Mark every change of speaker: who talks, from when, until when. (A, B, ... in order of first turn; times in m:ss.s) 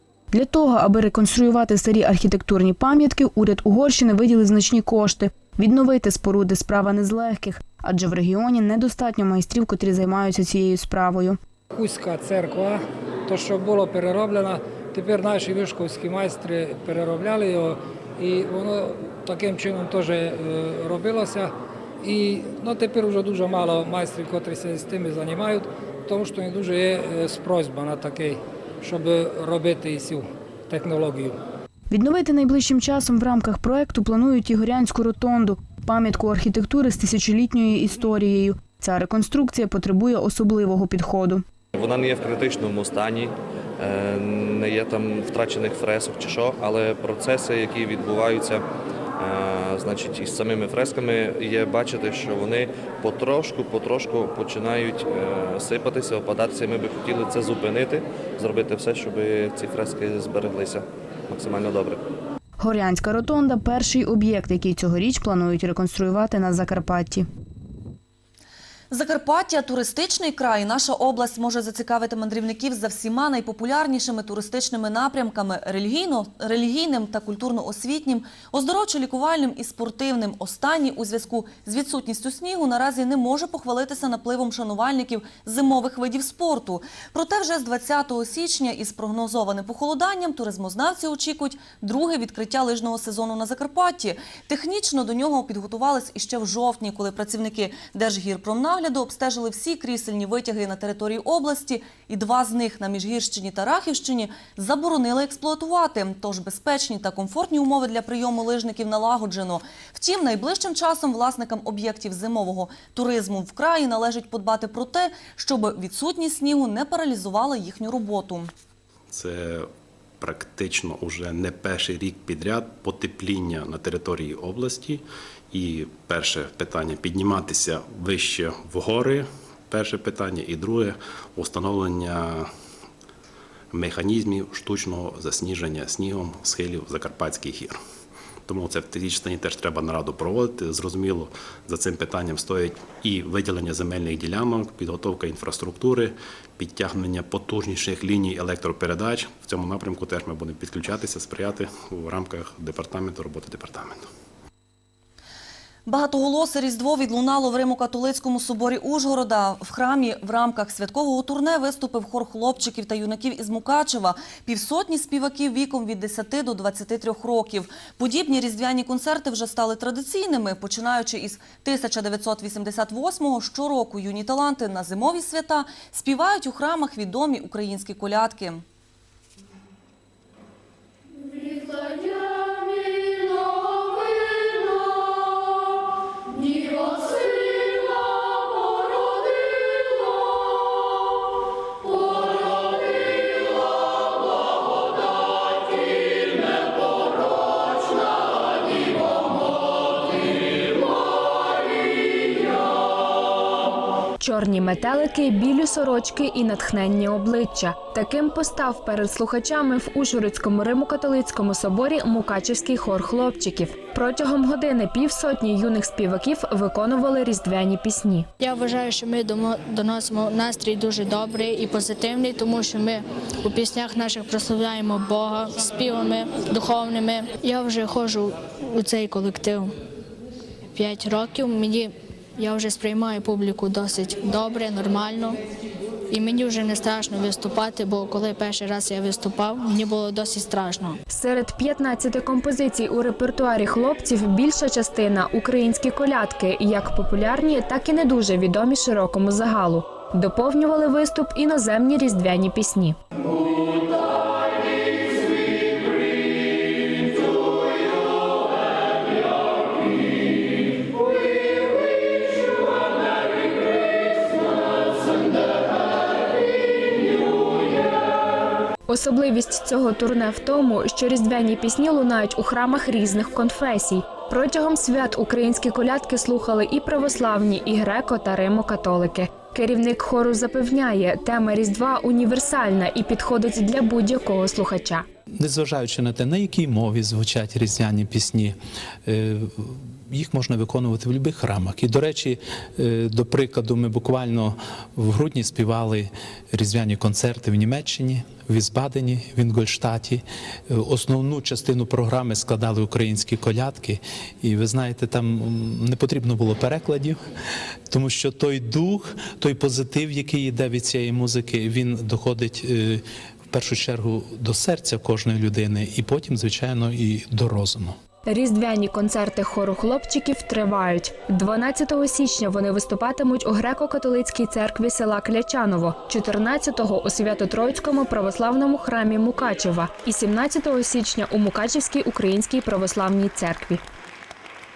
0:00.3-0:11.4 A
0:11.7-0:31.4 B
0:31.9-0:41.4 A
0:41.7-0:48.6 C
0:49.2-1:02.0 C
1:02.6-1:07.2 A
1:08.9-1:58.5 D
1:59.1-1:59.7 E
2:00.2-2:12.5 E
2:13.7-2:17.8 E
2:18.5-2:34.0 E
2:35.8-2:58.6 D
3:24.2-3:38.3 F
3:38.4-3:49.8 G
3:50.7-3:55.4 G
3:56.1-4:01.0 G
4:01.1-4:13.0 F
4:28.9-4:45.0 F
4:45.4-5:07.2 H
5:07.9-5:18.0 H
5:18.2-5:33.8 F